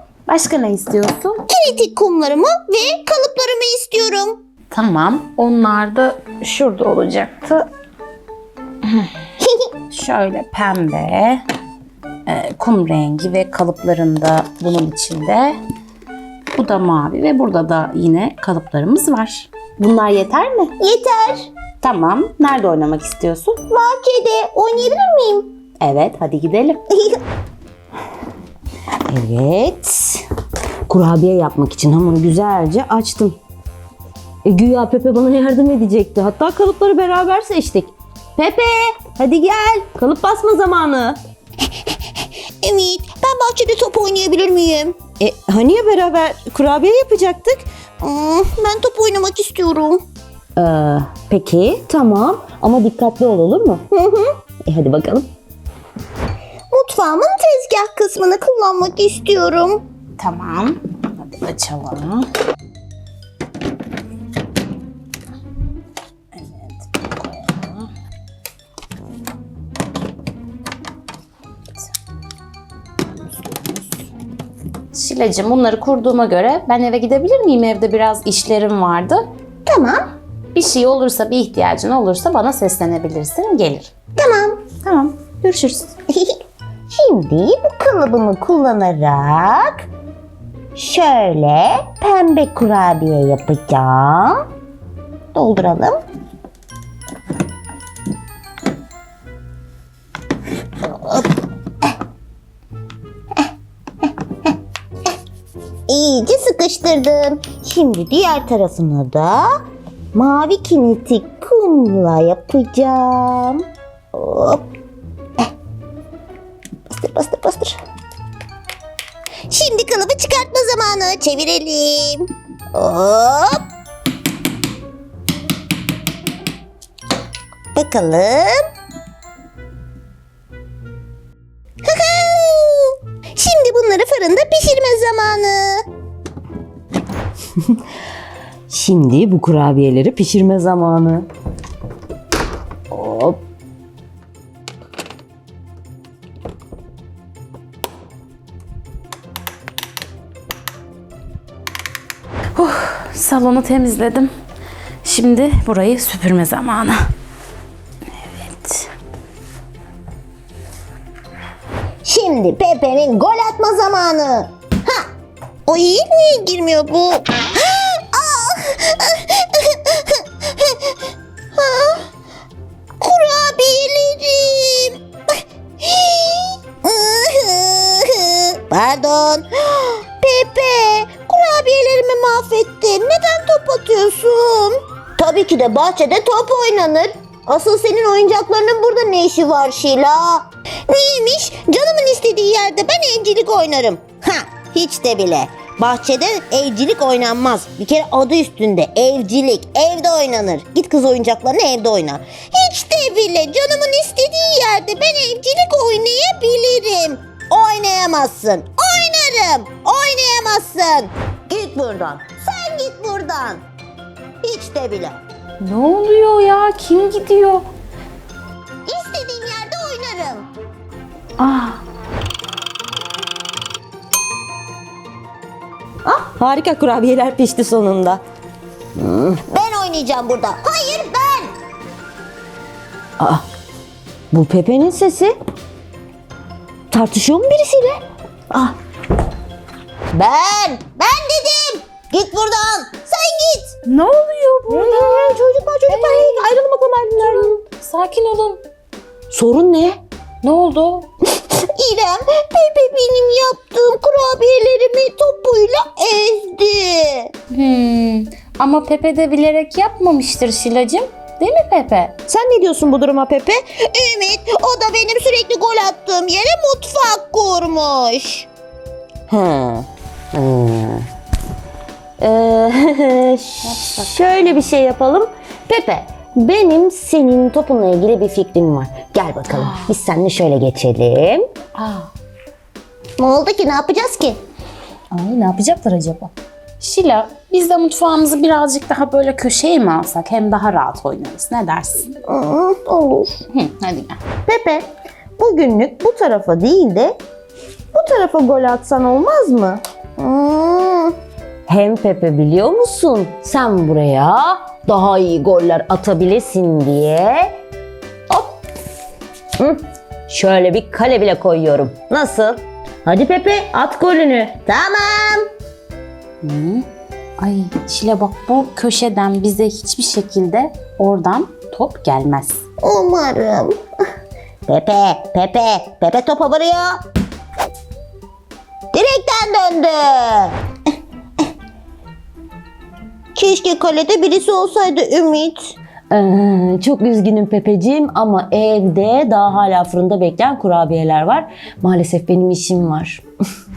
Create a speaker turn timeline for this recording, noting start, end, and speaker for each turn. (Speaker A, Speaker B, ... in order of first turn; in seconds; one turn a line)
Speaker A: 0.3-1.4
Speaker B: 1.5-4.4
Speaker A: 4.7-7.7
Speaker B: 9.4-9.7
Speaker A: 9.9-11.4
Speaker A: 12.3-15.6
Speaker A: 16.5-20.7
Speaker B: 20.8-21.5
Speaker A: 21.8-23.6
Speaker B: 23.7-25.5
Speaker A: 25.8-26.8
Speaker B: 26.9-27.2
Speaker C: 29.1-30.2
Speaker C: 30.9-33.4
Speaker C: 34.5-41.2
Speaker B: 42.6-45.0
Speaker C: 45.1-47.6
Speaker B: 48.0-50.0
Speaker C: 50.6-53.8
Speaker B: 53.9-54.4
Speaker C: 54.7-55.3
Speaker B: 56.7-59.8
Speaker A: 60.2-62.3
Speaker A: 66.3-67.9
Speaker A: 73.5-73.9
Speaker A: 74.9-79.3
Speaker B: 79.7-80.1
Speaker A: 80.5-83.9
Speaker B: 84.2-84.7
Speaker A: 84.8-85.9
Speaker B: 86.1-89.9
Speaker B: 90.8-94.4
Speaker B: 95.3-96.0
Speaker B: 100.9-101.3
Speaker B: 105.9-109.5
Speaker B: 110.1-114.7
Speaker B: 116.9-117.8
Speaker B: 119.5-123.6
Speaker B: 127.7-128.6
Speaker B: 131.8-135.8
Speaker C: 138.7-141.3
Speaker C: 142.9-143.4
Speaker A: 152.6-154.3
Speaker A: 155.0-157.1
Speaker A: 158.2-158.9
Speaker B: 162.0-165.1
Speaker B: 165.7-171.0
Speaker B: 171.6-172.1
Speaker B: 173.0-175.0
Speaker B: 175.8-213.6
Speaker B: 214.4-215.2
Speaker A: 215.6-217.7
Speaker B: 218.9-220.5
Speaker A: 221.4-221.8
Speaker C: 226.1-228.2
Speaker B: 229.0-231.5
Speaker C: 233.2-233.4
Speaker C: 234.3-235.3
Speaker C: 236.9-238.8
Speaker B: 240.2-243.7
Speaker A: 243.8-248.6
Speaker B: 244.7-246.4
Speaker C: 249.3-250.0
Speaker A: 250.4-251.1
Speaker B: 251.4-257.3
Speaker A: 257.5-262.1
Speaker C: 262.3-263.3
Speaker B: 262.5-268.5
Speaker B: 269.3-269.9
Speaker C: 270.3-271.1
Speaker C: 272.2-281.4
Speaker A: 273.6-274.3
Speaker A: 279.5-279.9
Speaker A: 281.8-282.1
Speaker B: 283.2-284.4
Speaker A: 285.1-292.1
Speaker B: 292.3-293.4
Speaker A: 293.5-294.2
Speaker C: 294.5-294.8
Speaker B: 294.5-294.8
Speaker B: 295.4-297.0
Speaker C: 295.4-297.1
Speaker C: 297.9-299.8
Speaker B: 300.2-301.1
Speaker C: 301.7-307.6
Speaker C: 309.6-315.1
Speaker B: 315.1-315.4
Speaker A: 316.4-316.9
Speaker A: 317.4-322.6
Speaker B: 322.8-323.8
Speaker B: 324.7-327.0
Speaker B: 328.9-330.6
Speaker B: 333.4-335.8
Speaker C: 336.1-343.2